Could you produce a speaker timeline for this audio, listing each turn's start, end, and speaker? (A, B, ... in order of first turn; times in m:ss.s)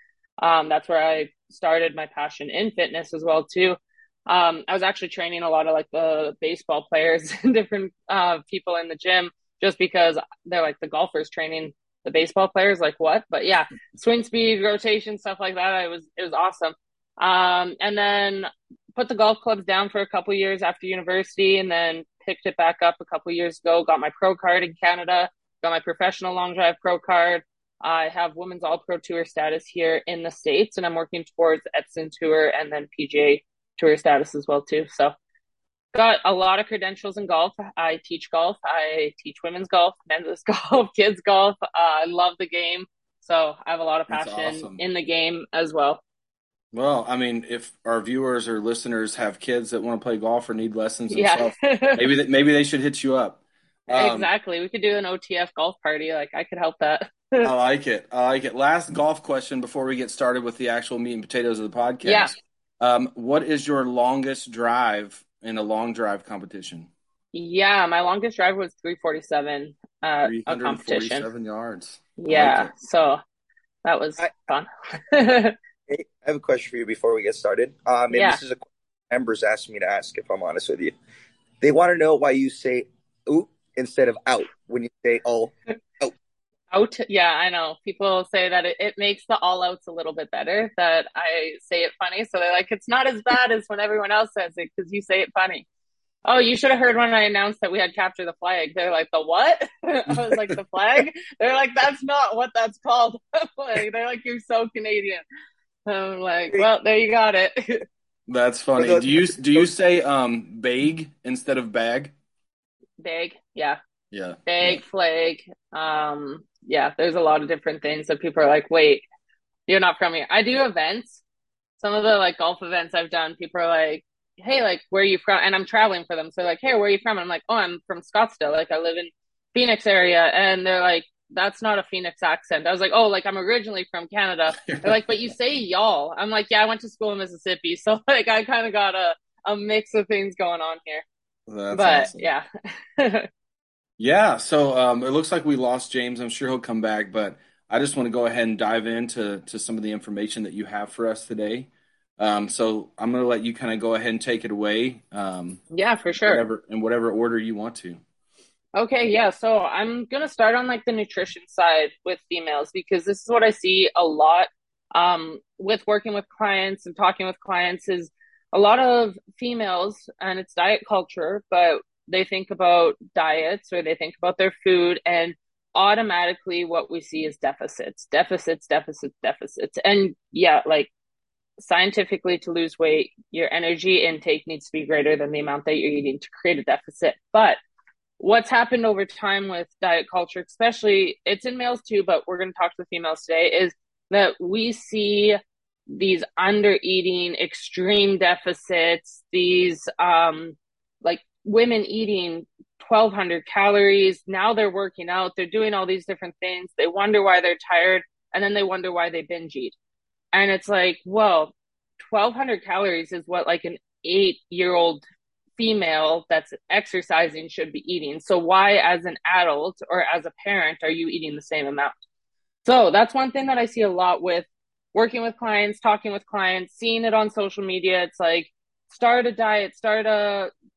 0:00.4-0:35.1 A
0:35.9-0:46.0 A
0:44.1-0:44.8 B
0:46.7-0:54.3 B
0:51.1-0:52.1 A
0:53.9-0:57.5 A
0:57.4-1:06.9 B
1:02.0-1:02.3 A
1:07.3-1:11.2 A
1:10.2-1:12.7 B
1:12.2-1:13.2 A
1:13.8-1:15.5 A
1:15.9-1:21.0 C
1:18.1-1:18.4 A
1:21.6-1:26.1 C
1:26.7-1:35.7 A
1:36.2-1:45.2 A
1:45.8-1:47.8 A
1:48.3-1:52.1 B
1:48.8-1:49.7 C
1:53.0-1:53.8 A
1:54.1-1:54.8 B
1:54.5-1:59.0 A
1:59.7-2:01.2 A
2:01.8-2:21.0 A
2:14.6-2:15.0 B
2:21.5-2:22.2 B
2:21.7-2:22.5 A
2:23.0-2:23.3 A
2:24.0-2:35.6 B
2:35.7-2:36.4 A
2:36.2-2:38.0 B
2:38.7-3:00.9 A
3:01.6-3:07.6 A
3:08.2-3:15.4 A
3:15.9-3:29.7 A
3:30.3-3:35.0 A
3:35.6-3:41.9 A
3:42.6-3:50.5 A